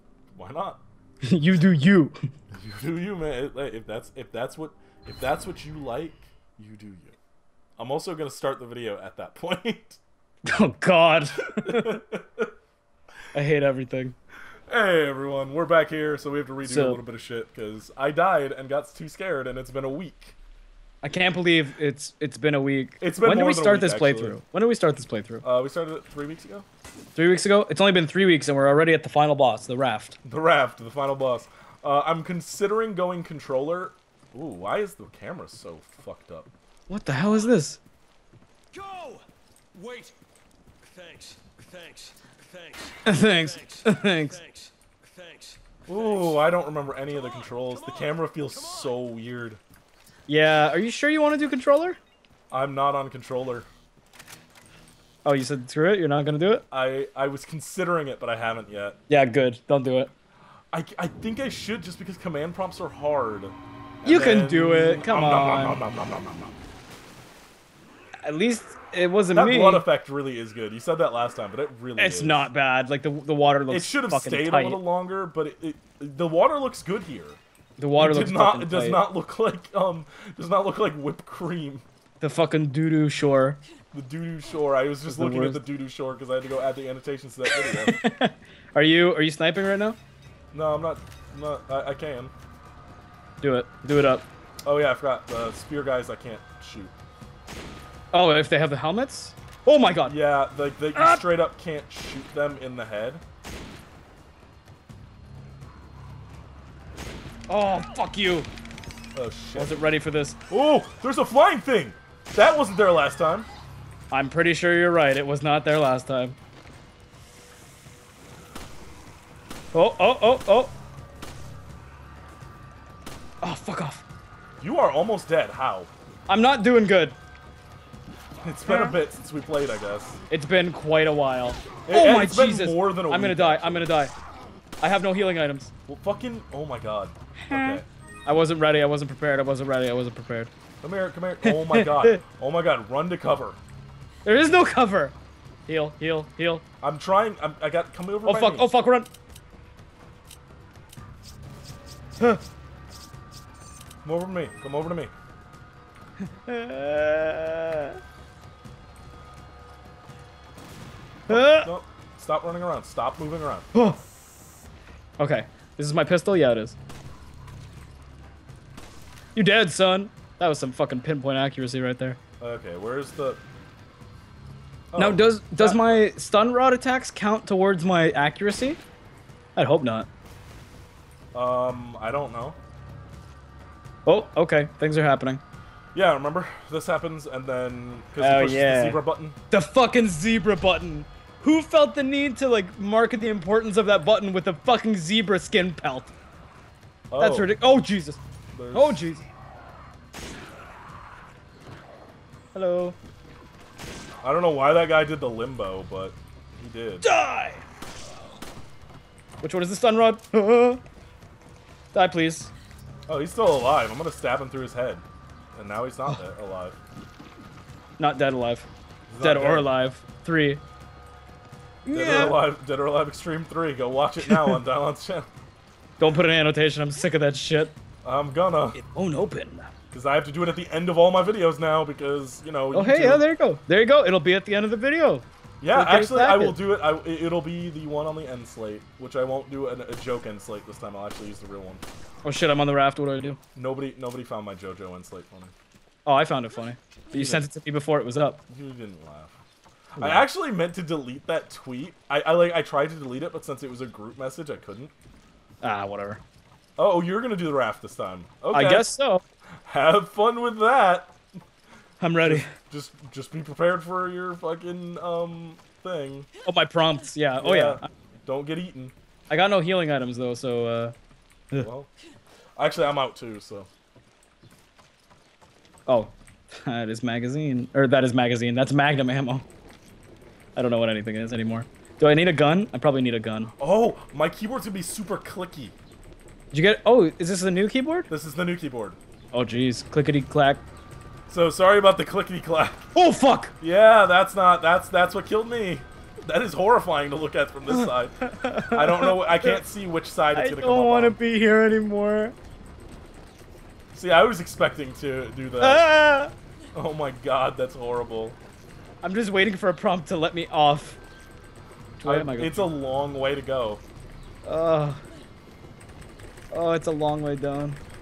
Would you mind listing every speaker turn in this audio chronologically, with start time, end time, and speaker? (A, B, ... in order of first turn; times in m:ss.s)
0:00.3-0:00.8 A
0:01.2-0:02.2 B
0:02.5-0:07.2 A
0:07.8-0:10.0 A
0:10.4-0:12.0 B
0:11.4-0:12.5 A
0:13.3-0:14.2 B
0:14.7-0:20.4 A
0:16.6-0:17.0 B
0:21.0-0:25.4 B
0:23.0-0:24.4 A
0:25.4-0:26.6 A
0:27.2-0:30.2 B
0:30.2-0:36.5 A
0:36.9-0:37.8 B
0:37.3-0:37.5 C
0:38.7-0:39.2 C
0:39.7-0:40.1 C
0:40.8-0:46.5 C
0:43.0-0:44.4 B
0:45.9-0:49.6 A
0:47.1-0:48.9 C
0:50.3-0:52.0 B
0:52.5-0:53.7 A
0:55.2-0:56.6 B
0:56.7-0:59.0 A
0:59.1-1:00.1 B
1:00.7-1:06.5 A
1:04.0-1:05.8 B
1:08.2-1:09.8 B
1:09.3-1:12.5 A
1:12.0-1:14.8 B
1:13.7-1:17.4 A
1:17.8-1:19.0 B
1:18.0-1:21.8 A
1:22.2-1:23.6 B
1:23.9-1:28.0 A
1:25.1-1:25.6 B
1:27.5-1:30.0 B
1:30.5-1:32.3 A
1:33.4-1:34.2 B
1:34.6-1:36.9 A
1:38.1-1:40.2 B
1:40.0-1:43.2 A
1:40.9-1:41.2 B
1:47.5-1:48.5 B
1:49.1-1:49.8 A
1:49.6-1:50.4 B
1:50.5-1:53.5 A
1:54.1-1:56.4 B
1:59.7-2:00.7 B
2:03.4-2:04.0 B
2:04.6-2:05.9 A
2:06.3-2:07.2 B
2:08.4-2:10.2 A
2:08.7-2:09.0 B
2:10.3-2:14.1 B
2:11.9-2:13.9 A
2:14.8-2:15.7 B
2:15.9-2:17.8 A
2:17.4-2:20.5 B
2:20.8-2:23.6 A
2:21.4-2:22.2 B
2:24.2-2:25.1 B
2:25.7-2:26.6 B
2:26.8-2:28.7 A
2:28.2-2:29.1 B
2:34.0-2:35.1 A
2:36.2-2:38.0 B
2:41.3-2:43.7 A
2:41.3-2:41.7 B
2:43.7-2:44.0 B
2:45.2-2:46.7 B
2:49.3-2:52.2 B
2:52.4-2:53.4 A
2:54.9-2:56.0 A
2:55.0-2:58.8 B
2:59.6-3:00.1 B
3:01.3-3:02.6 A
3:04.0-3:05.4 B
3:05.9-3:09.4 A
3:08.2-3:16.1 B
3:17.1-3:17.5 A
3:17.2-3:18.2 B
3:18.5-3:19.1 A
3:18.7-3:19.3 B
3:22.5-3:23.0 B
3:24.2-3:27.0 A
3:27.0-3:27.6 B
3:29.4-3:30.8 B
3:31.9-3:32.5 B
3:33.1-3:36.8 A
3:38.0-3:38.7 B
3:39.1-3:39.7 A
3:39.2-3:40.6 B
3:41.8-3:42.4 B
3:41.9-3:45.3 A
3:44.3-3:44.6 B
3:46.0-3:47.7 B
3:48.0-3:48.8 A
3:48.7-3:49.7 B
3:49.9-3:53.2 A
3:52.7-3:56.6 B
3:55.6-4:01.8 A
4:02.2-4:03.4 B
4:03.5-4:05.5 A
4:06.0-4:08.4 B
4:07.1-4:07.5 A
4:08.5-4:09.4 A
4:09.9-4:14.9 A
4:10.0-4:10.2 B
4:15.6-4:16.2 B
4:16.8-4:18.9 A
4:18.5-4:19.2 B
4:19.6-4:21.2 A
4:22.0-4:22.5 B
4:22.2-4:26.3 A
4:26.4-4:27.9 B
4:27.4-4:28.9 A
4:29.3-4:30.9 B
4:31.6-4:31.9 A
4:32.6-4:33.7 A
4:35.9-4:39.4 B
4:40.6-4:43.5 B
4:43.6-4:45.8 A
4:46.5-4:48.1 B
4:48.1-4:49.0 A
4:49.3-4:50.6 B
4:51.3-4:52.8 A
4:52.9-4:53.5 B
4:53.6-4:58.2 A
4:57.7-4:59.6 B
4:58.7-5:01.2 A
5:00.3-5:02.3 B
5:03.9-5:05.9 A
5:05.6-5:06.3 B
5:06.7-5:08.4 A
5:09.0-5:11.0 B
5:12.0-5:12.7 B
5:12.0-5:13.8 A
5:14.4-5:15.0 B
5:16.5-5:17.8 B